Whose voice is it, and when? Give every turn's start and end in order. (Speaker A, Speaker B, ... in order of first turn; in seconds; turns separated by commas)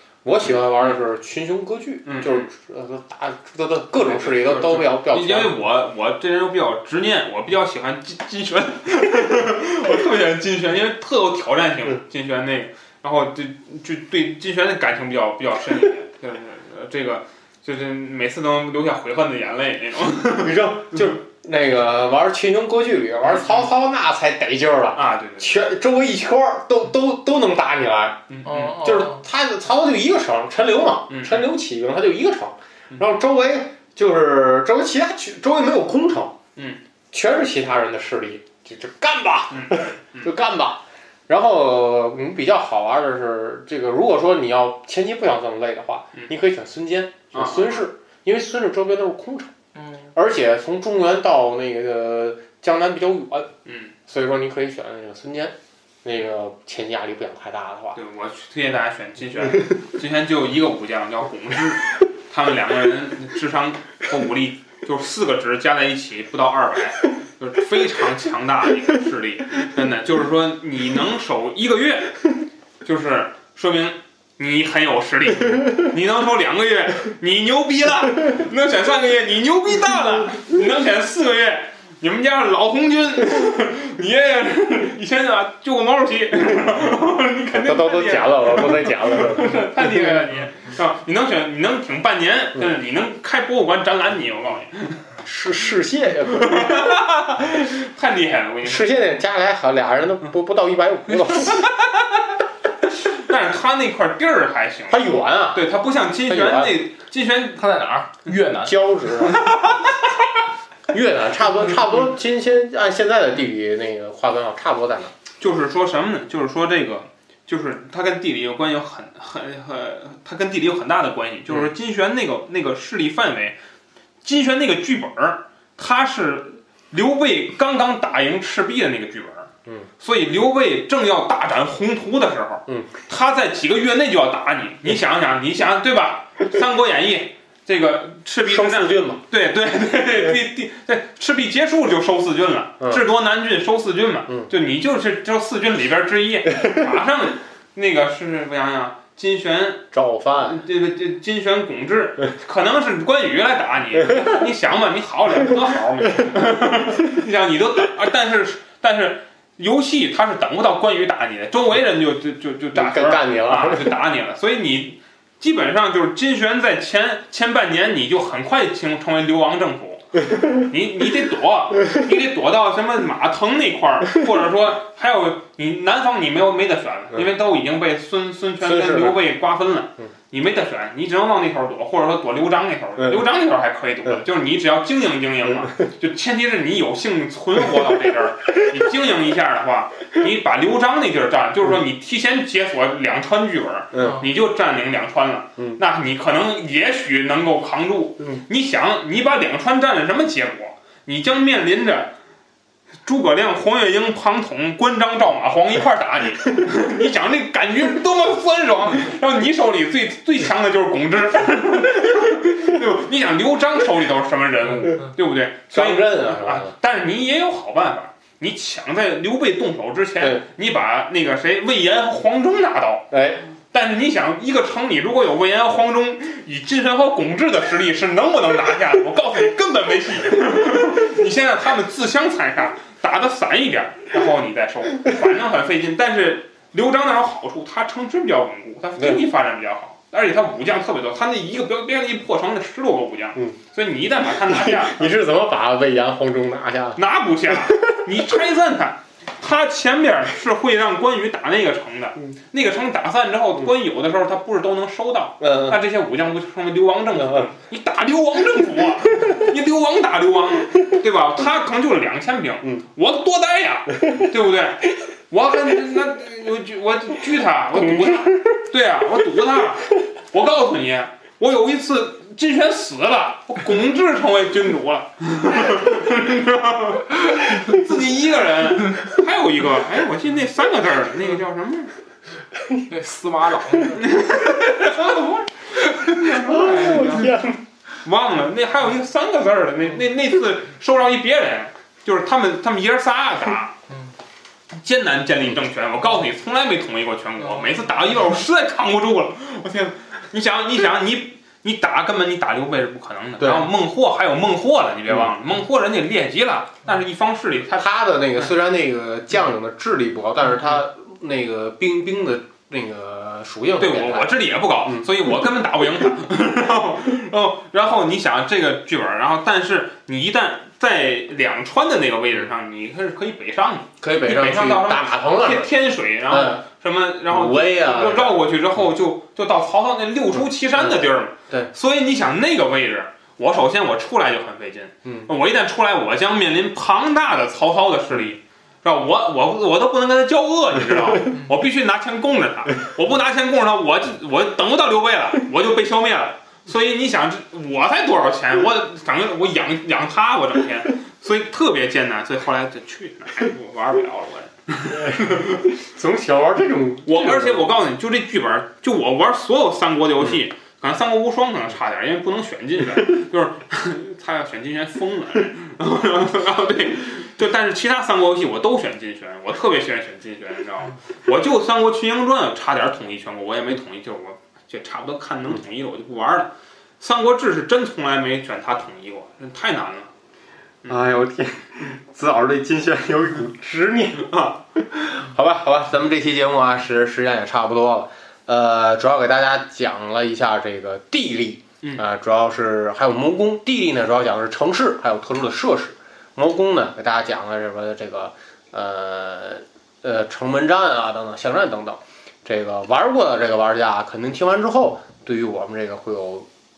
Speaker A: 0.2-5.6, Speaker B: 2.0-2.5, Speaker B: 4.0-20.7, Speaker A: 20.4-36.4, Speaker B: 24.9-25.6, Speaker B: 28.3-28.8, Speaker C: 28.4-29.2, Speaker B: 31.1-31.4, Speaker B: 36.5-36.8, Speaker A: 37.1-49.5, Speaker B: 39.5-40.3, Speaker B: 47.3-47.9, Speaker C: 49.8-50.1, Speaker A: 50.1-53.5, Speaker B: 53.6-53.9, Speaker A: 54.0-58.0, Speaker B: 57.9-72.3, Speaker B: 72.8-95.1, Speaker A: 87.5-89.7, Speaker A: 95.2-97.0, Speaker B: 96.4-98.9, Speaker A: 98.6-101.7, Speaker B: 103.0-105.0, Speaker A: 104.9-105.7, Speaker B: 105.5-107.6, Speaker A: 106.2-106.8, Speaker C: 107.6-109.3, Speaker A: 108.6-109.5, Speaker B: 109.4-109.8, Speaker A: 110.9-115.1, Speaker B: 115.4-123.5, Speaker B: 124.2-202.1, Speaker A: 132.7-132.9, Speaker A: 138.4-139.2, Speaker A: 149.9-150.6, Speaker A: 162.7-163.9, Speaker A: 178.6-179.2, Speaker A: 193.9-194.2, Speaker B: 203.0-223.1, Speaker A: 215.7-216.7, Speaker A: 223.1-223.4, Speaker B: 223.7-245.1, Speaker A: 239.0-239.2, Speaker A: 244.4-247.8, Speaker B: 246.9-281.9, Speaker A: 255.4-255.8, Speaker A: 257.1-257.5, Speaker A: 267.8-268.6, Speaker C: 282.9-284.1, Speaker B: 283.9-287.5, Speaker A: 286.2-287.6, Speaker B: 288.0-293.8, Speaker B: 294.7-307.9, Speaker A: 303.4-303.7, Speaker A: 307.7-315.1, Speaker B: 313.8-355.6, Speaker A: 324.0-325.7, Speaker A: 326.3-326.6, Speaker A: 327.3-328.4, Speaker A: 330.8-331.7, Speaker A: 354.9-357.7, Speaker B: 357.1-380.1, Speaker A: 380.9-406.5